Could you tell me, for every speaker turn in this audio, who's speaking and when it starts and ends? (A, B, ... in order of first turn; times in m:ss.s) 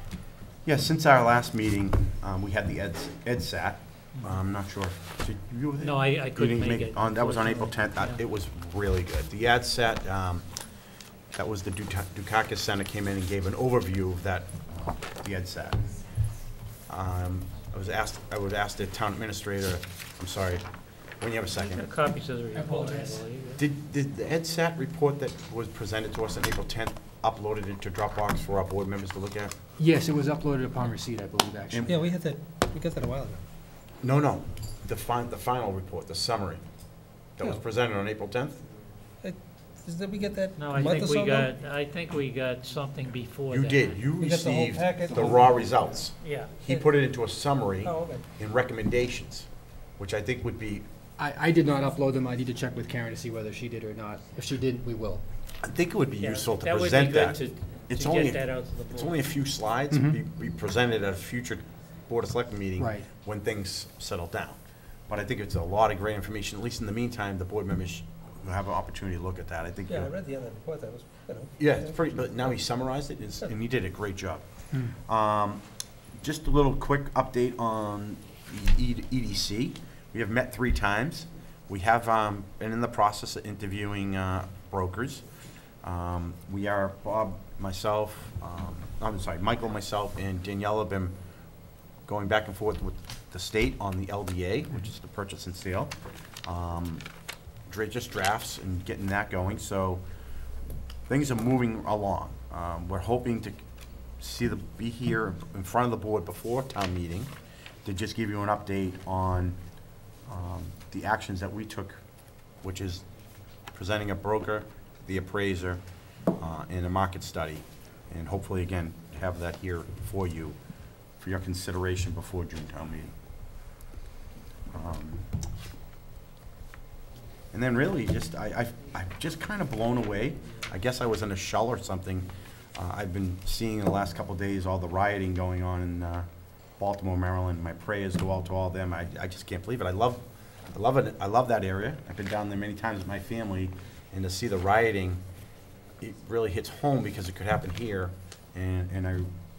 0:00.6-0:10.5 A
0:05.8-0:08.2 B
0:11.3-0:15.8 A
0:16.8-0:20.6 A
0:21.2-0:21.8 A
0:21.6-0:23.6 B
0:22.5-0:23.2 C
0:23.6-0:29.5 A
0:29.8-0:31.9 C
0:31.7-0:32.0 A
0:31.8-0:33.4 D
0:34.0-0:36.6 A
0:37.3-0:38.6 A
0:39.2-0:41.5 D
0:40.6-0:44.0 B
0:43.5-0:50.8 A
0:44.2-0:45.8 D
0:46.2-0:46.5 B
0:47.8-0:48.2 D
0:51.2-0:55.2 C
0:55.6-1:10.1 A
0:56.2-0:59.2 B
0:59.9-1:00.2 C
1:02.8-1:03.1 C
1:09.8-1:12.1 D
1:11.6-1:15.6 A
1:16.2-1:25.2 A
1:25.8-1:31.2 A
1:32.1-1:37.0 A
1:37.7-1:40.0 A
1:41.1-1:43.6 A
1:44.2-1:47.3 A
1:47.8-1:49.6 A
1:50.2-1:52.0 A
1:52.6-1:53.0 A
1:53.7-1:55.8 A
1:56.3-2:00.6 A
2:01.2-2:03.1 A
2:04.7-2:05.3 A
2:07.5-2:25.2 A
2:26.0-2:29.3 A